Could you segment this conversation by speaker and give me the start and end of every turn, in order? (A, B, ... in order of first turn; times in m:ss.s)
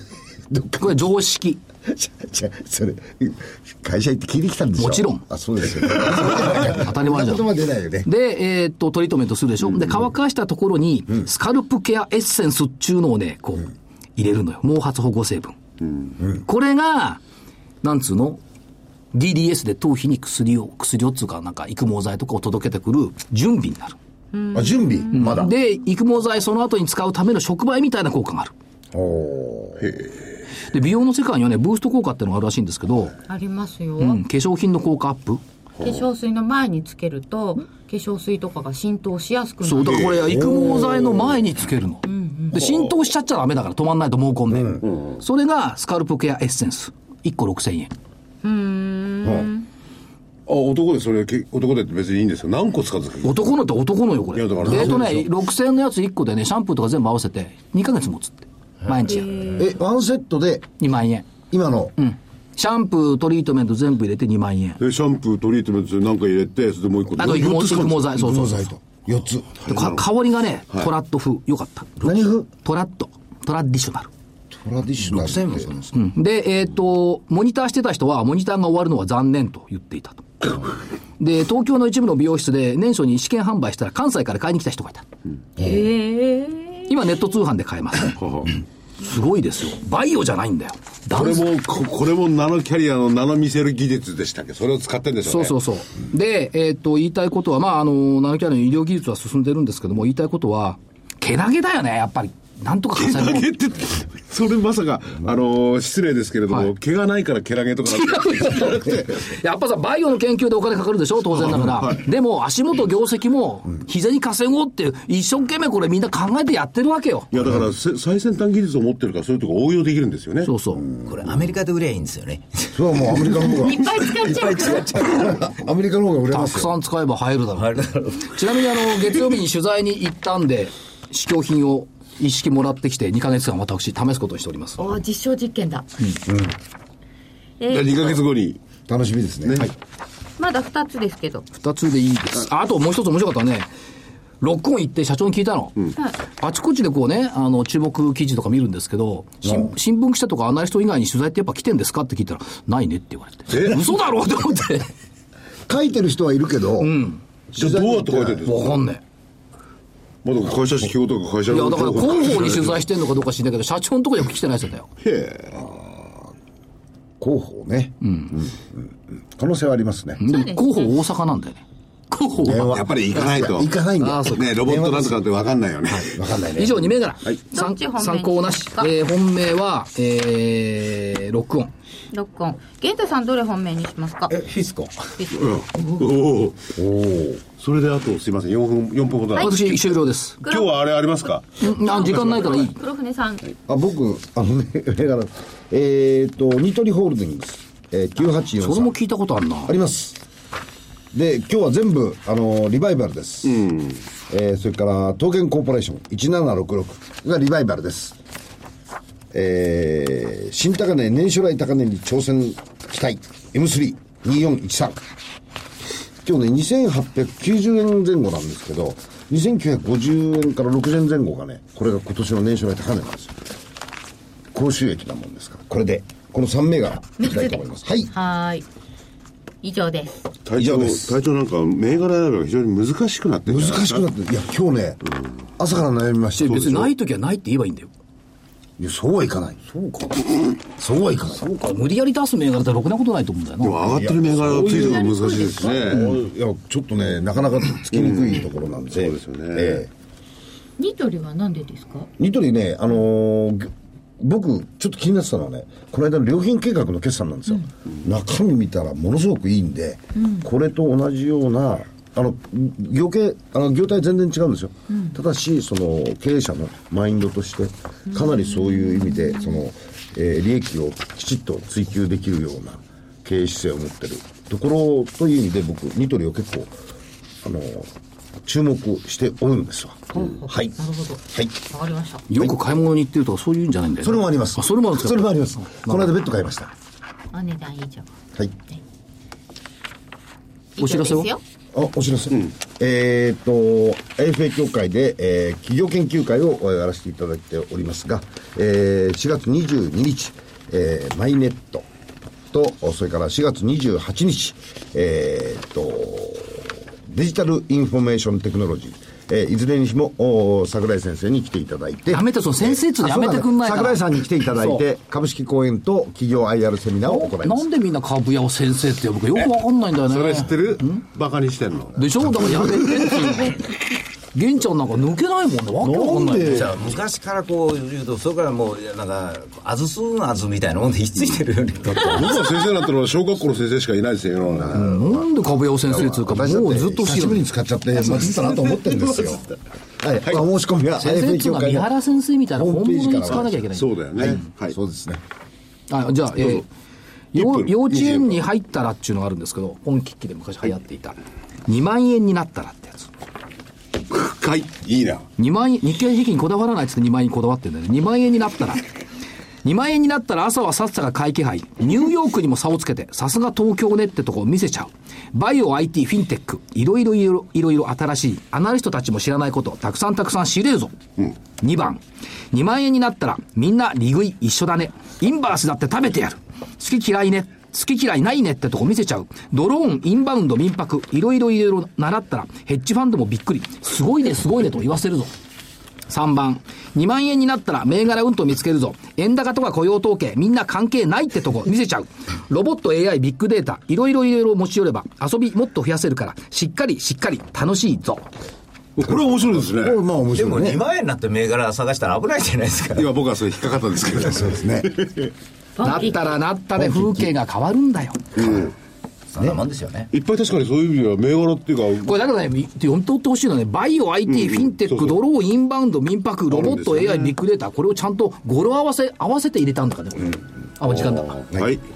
0:00.5-0:01.0 A
0:00.8-0:01.6 B
0:01.8-0:08.1 A
0:04.8-0:05.2 B
0:06.5-0:07.5 B
0:08.0-0:15.5 B
0:16.4-0:17.2 B
0:17.8-0:18.4 B
0:19.1-0:24.0 B
0:24.3-0:25.5 C
0:24.5-0:25.5 A
0:25.1-0:28.5 B
0:28.9-0:29.9 A
0:29.8-0:30.1 D
0:30.7-0:33.1 B
0:33.3-0:34.2 C
0:34.0-0:35.4 B
0:35.8-0:40.0 C
0:39.6-0:47.9 B
0:39.8-0:41.0 D
0:40.2-0:41.2 A
0:42.0-0:42.6 C
0:42.5-0:42.9 D
0:44.5-0:44.8 A
0:48.4-0:49.7 C
0:49.2-0:49.5 A
0:50.5-0:53.5 D
0:53.2-0:59.6 B
0:54.3-0:55.3 D
0:54.6-0:55.0 A
0:59.1-0:59.7 C
0:59.6-1:00.7 A
1:00.8-1:01.3 B
1:01.5-1:01.9 A
1:02.0-1:04.8 B
1:04.8-1:08.2 D
1:07.2-1:08.7 B
1:08.2-1:09.7 A
1:09.6-1:12.0 B
1:09.7-1:10.0 D
1:12.0-1:12.5 A
1:12.5-1:14.1 B
1:14.5-1:15.7 A
1:15.0-1:15.9 E
1:15.9-1:20.5 B
1:21.2-1:25.0 B
1:25.6-1:25.8 A
1:25.6-1:26.8 C
1:26.9-1:28.2 B
1:28.2-1:28.6 D
1:29.0-1:31.4 B
1:31.1-1:35.6 D
1:35.2-1:43.5 B
1:43.0-1:49.2 D
1:47.8-1:57.3 B
1:51.3-1:52.0 D
1:57.3-2:00.5 D
2:00.4-2:00.8 B
2:01.0-2:03.2 E
2:02.7-2:06.7 A
2:03.5-2:05.4 C
2:06.3-2:14.9 B
2:07.6-2:08.3 E
2:14.8-2:15.9 C
2:16.2-2:16.6 A
2:17.6-2:18.2 C
2:17.7-2:18.6 D
2:18.9-2:19.7 A
2:19.4-2:19.7 D
2:20.4-2:21.4 C
2:21.5-2:23.7 B
2:24.4-2:25.8 B
2:26.4-2:34.9 B
2:29.4-2:29.7 A
2:33.5-2:33.8 D
2:35.7-2:37.0 A
2:36.8-2:37.2 B
2:37.5-2:38.5 A
2:37.6-2:38.8 D
2:38.4-2:39.0 B
2:40.2-2:42.8 D
2:41.5-2:44.9 B
2:45.0-2:45.6 D
2:45.5-2:46.2 A
2:47.2-2:50.2 A
2:48.0-2:48.3 B
2:50.2-2:53.3 B
2:50.2-2:51.0 C
2:52.4-2:55.2 A
2:52.6-2:53.7 D
2:54.0-2:54.4 B
2:54.3-2:56.2 D
2:56.0-2:57.4 A
2:56.6-3:01.7 B
2:57.5-2:58.9 C
3:02.1-3:04.4 C
3:04.3-3:05.1 E
3:05.2-3:05.8 C
3:05.3-3:06.7 D
3:06.8-3:07.4 A
3:07.5-3:09.9 D
3:09.3-3:09.8 C
3:09.4-3:10.4 B
3:10.4-3:10.9 C
3:10.4-3:12.2 D
3:11.6-3:12.8 B
3:11.7-3:13.5 C
3:13.7-3:18.9 A
3:18.6-3:19.7 B
3:19.6-3:20.2 A
3:21.1-3:23.6 A
3:23.4-3:24.0 D
3:24.3-3:28.2 A
3:29.3-3:35.0 A
3:36.2-3:43.4 A
3:44.5-3:48.1 A
3:47.2-3:48.6 C
3:49.6-3:50.1 C
3:50.4-3:54.0 D
3:50.5-3:51.2 A
3:53.4-3:55.0 A
3:55.6-3:56.9 A
3:56.4-3:57.9 B
3:58.8-4:01.5 A
4:01.5-4:03.8 B
4:03.6-4:06.2 D
4:03.8-4:09.9 A
4:04.7-4:06.0 C
4:08.0-4:09.8 D
4:10.8-4:12.1 C
4:12.2-4:36.7 A
4:20.2-4:20.5 C
4:24.9-4:25.2 C
4:28.1-4:29.6 C
4:37.4-4:37.9 A
4:38.4-4:40.7 A
4:40.1-4:42.2 C
4:41.3-4:41.5 A
4:42.3-4:46.1 B
4:44.0-4:46.7 A
4:47.3-4:48.1 C
4:50.8-4:51.4 C
4:50.8-4:51.3 B
4:51.7-5:01.9 A
5:02.5-5:17.7 A
5:12.1-5:14.8 B
5:17.0-5:21.0 B
5:19.4-5:23.6 D
5:22.0-5:23.6 B
5:24.3-5:26.7 B
5:25.8-5:26.8 A
5:26.4-5:32.4 E
5:31.9-5:34.8 D
5:34.5-5:39.5 A
5:34.7-5:38.6 B
5:40.0-5:41.9 A
5:41.0-5:44.4 B
5:42.5-5:43.6 A
5:43.7-5:44.8 D
5:44.1-5:45.2 A
5:45.9-5:46.6 B
5:46.4-5:46.6 D
5:47.3-5:53.1 B
5:47.3-5:48.4 D
5:54.1-5:55.3 D
5:55.4-5:58.8 B
5:59.6-6:11.0 B
6:11.6-6:25.3 B
6:26.1-6:38.2 B
6:39.0-6:40.0 D
6:39.0-6:40.8 A
6:40.3-6:43.1 E
6:42.9-6:45.3 D
6:44.2-6:45.0 A
6:45.8-6:46.3 C
6:45.8-6:48.2 B
6:46.7-6:47.3 A
6:48.4-6:48.7 D
6:49.3-6:50.1 E
6:50.1-6:52.2 D
6:52.0-7:01.3 B
6:54.3-6:55.2 D
6:56.5-6:57.3 D
7:00.8-7:01.8 D